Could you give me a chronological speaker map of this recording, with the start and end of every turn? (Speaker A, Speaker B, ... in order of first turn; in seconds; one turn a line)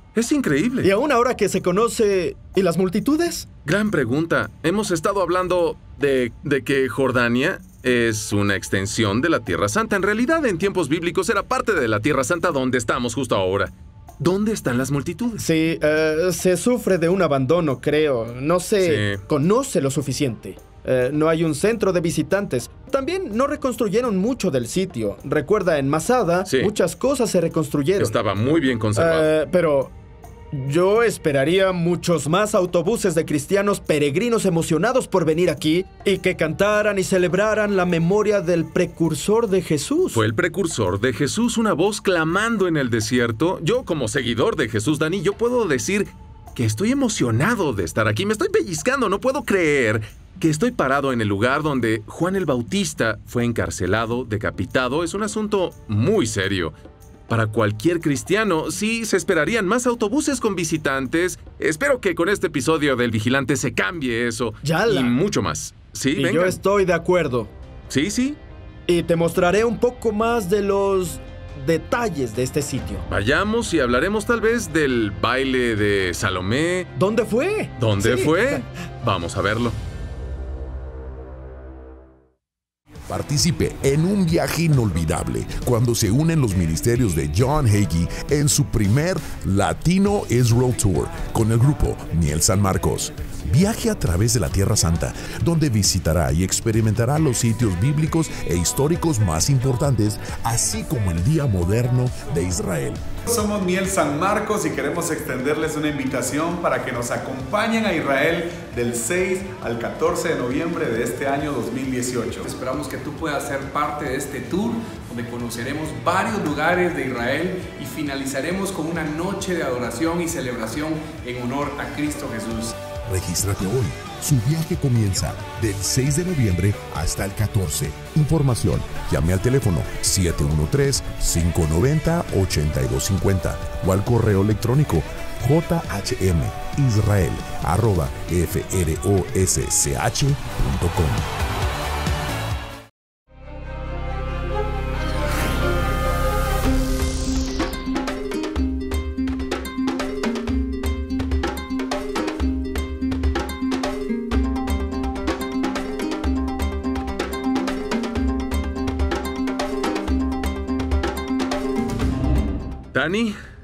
Speaker A: 0.1-0.9
Speaker B: 0.8-3.5
Speaker A: 3.6-15.4
Speaker B: 15.4-28.1
Speaker A: 18.8-19.2
Speaker A: 26.4-26.7
Speaker A: 28.0-29.3
Speaker B: 28.9-29.9
Speaker B: 30.5-40.2
Speaker A: 40.1-56.7
Speaker A: 57.3-66.6
Speaker B: 64.6-65.2
Speaker B: 66.1-67.5
Speaker A: 67.9-68.4
Speaker B: 68.9-73.0
Speaker A: 73.1-76.9
Speaker B: 77.0-78.6
Speaker A: 77.8-79.8
Speaker C: 83.1-103.0
Speaker D: 103.2-112.4
Speaker E: 112.4-122.7
Speaker C: 123.1-141.3
Speaker A: 162.9-163.3